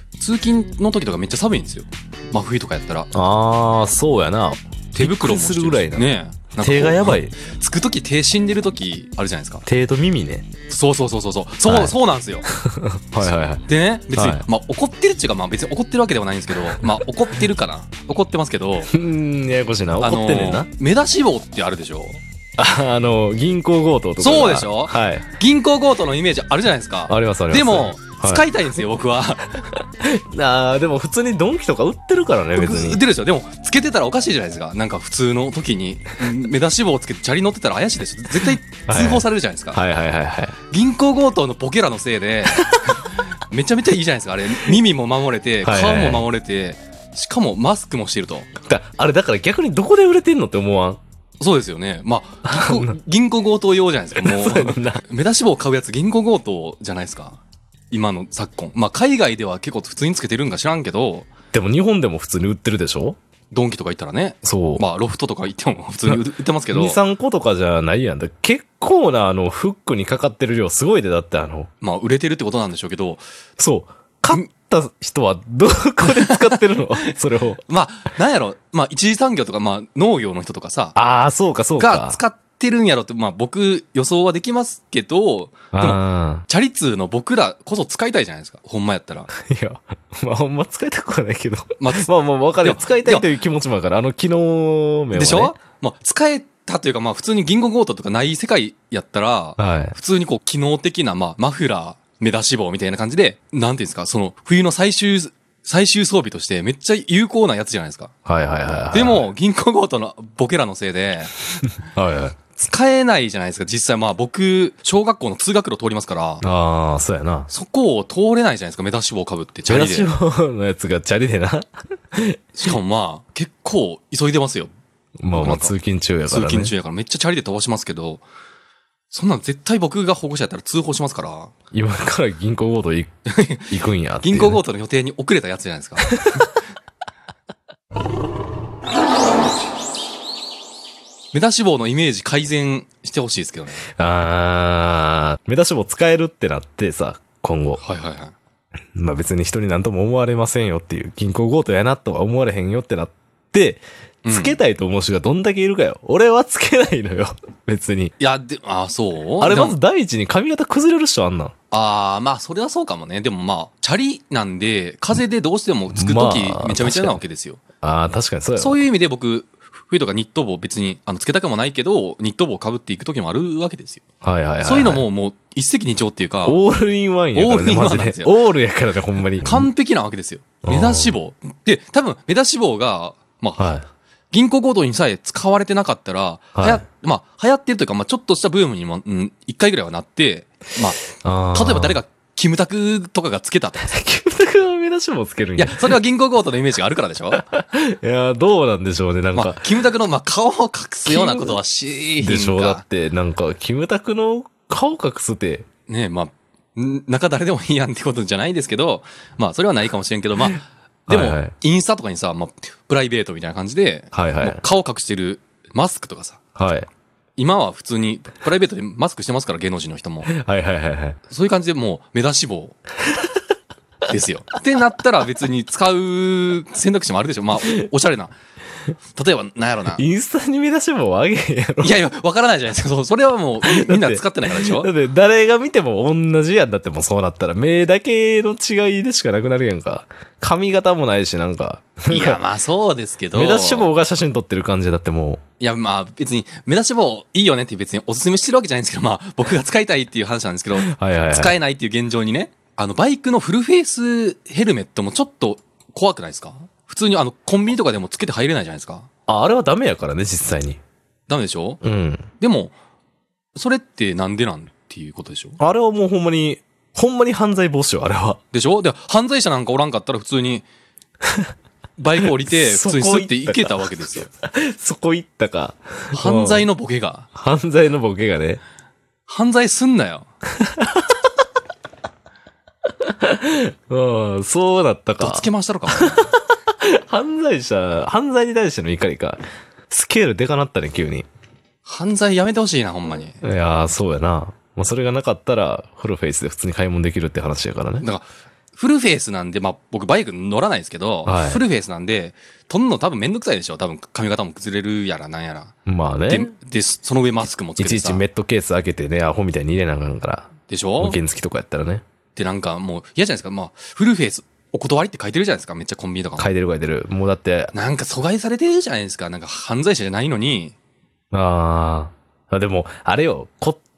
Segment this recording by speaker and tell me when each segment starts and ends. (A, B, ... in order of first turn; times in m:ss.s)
0:00.2-0:03.1 A
0:03.1-0:06.1 B
0:04.9-0:09.6 A
0:06.6-0:07.3 B
0:09.6-0:10.5 B
0:10.7-0:12.5 A
0:11.6-0:11.9 B
0:12.5-0:14.4 B
0:13.2-0:18.9 A
0:18.9-0:20.7 B
0:20.0-0:22.2 A
0:22.6-0:25.3 B
0:24.2-0:29.7 A
0:27.1-0:28.4 B
0:30.0-0:33.0 B
0:32.6-0:39.8 A
0:38.9-0:40.6 B
0:40.7-0:48.5 A
0:42.5-0:42.9 B
0:45.6-0:46.2 B
0:48.7-0:51.0 B
0:51.4-0:57.4 A
0:52.4-0:52.9 B
0:54.2-0:55.0 B
0:57.9-1:01.3 A
1:01.5-1:03.2 B
1:03.5-1:07.0 A
1:04.4-1:04.8 B
1:06.1-1:11.7 B
1:11.8-1:13.2 A
1:13.6-1:17.6 B
1:16.1-1:21.0 A
1:20.9-1:22.2 B
1:21.8-1:29.3 A
1:25.7-1:26.4 B
1:29.4-1:35.5 B
1:31.8-1:33.2 A
1:35.1-1:48.1 A
1:39.6-1:40.0 B
1:48.2-1:49.2 B
1:48.9-1:51.4 A
1:51.9-1:52.4 B
1:52.6-1:56.4 A
1:56.4-1:57.5 B
1:57.5-2:00.1 A
1:59.7-2:02.4 B
2:02.5-2:04.7 A
2:05.2-2:06.7 B
2:05.3-2:05.7 A
2:06.3-2:08.2 A
2:09.1-2:11.5 A
2:11.7-2:13.1 B
2:13.3-2:16.5 A
2:13.7-2:14.6 B
2:21.3-2:23.8 A
2:24.0-2:27.8 B
2:27.8-2:28.3 A
2:28.9-2:38.1 B
2:34.2-2:34.6 A
2:38.2-2:39.8 A
2:39.4-2:41.5 B
2:41.7-2:47.6 A
2:45.9-2:47.2 B
2:47.8-2:48.8 B
2:48.6-2:54.0 A
2:54.2-2:55.0 B
2:54.6-2:56.6 A
2:56.4-2:59.7 B
2:57.3-2:58.4 A
2:59.4-3:03.8 A
3:00.6-3:01.2 B
3:03.6-3:03.8 B
3:04.3-3:13.9 A
3:06.6-3:06.8 B
3:11.2-3:12.0 B
3:13.9-3:16.0 B
3:15.6-3:17.4 A
3:17.3-3:19.6 B
3:19.3-3:22.8 A
3:21.0-3:21.6 B
3:22.2-3:25.7 B
3:25.9-3:36.4 A
3:31.1-3:31.5 B
3:34.1-3:34.6 B
3:36.6-3:36.9 B
3:37.4-3:40.3 A
3:40.3-3:41.2 B
3:41.3-3:42.8 A
3:44.1-3:48.3 A
3:49.1-3:50.0 A
3:50.0-3:52.0 B
3:51.8-3:54.9 A
3:53.6-4:02.4 B
4:02.1-4:03.9 A
4:03.3-4:05.4 B
4:05.6-4:19.1 A
4:10.8-4:11.5 B
4:19.3-4:20.8 B
4:21.3-4:21.8 A
4:21.8-4:22.2 B
4:22.4-4:22.7 A
4:23.5-4:25.6 A
4:25.6-4:28.4 B
4:28.5-4:30.7 A
4:32.0-4:34.3 A
4:32.2-4:36.7 B
4:36.1-4:37.3 A
4:37.3-4:38.6 B
4:39.3-4:40.3 A
4:40.6-4:41.1 B
4:43.0-4:51.3 B
4:45.2-4:46.3 A
4:51.8-4:53.4 A
4:53.4-4:58.0 B
4:58.0-5:05.7 A
5:01.2-5:01.6 B
5:05.8-5:06.5 B
5:06.3-5:08.2 A
5:07.8-5:12.0 B
5:10.7-5:11.2 A
5:12.3-5:16.5 A
5:16.4-5:17.7 B
5:17.7-5:20.7 A
5:21.3-5:23.8 B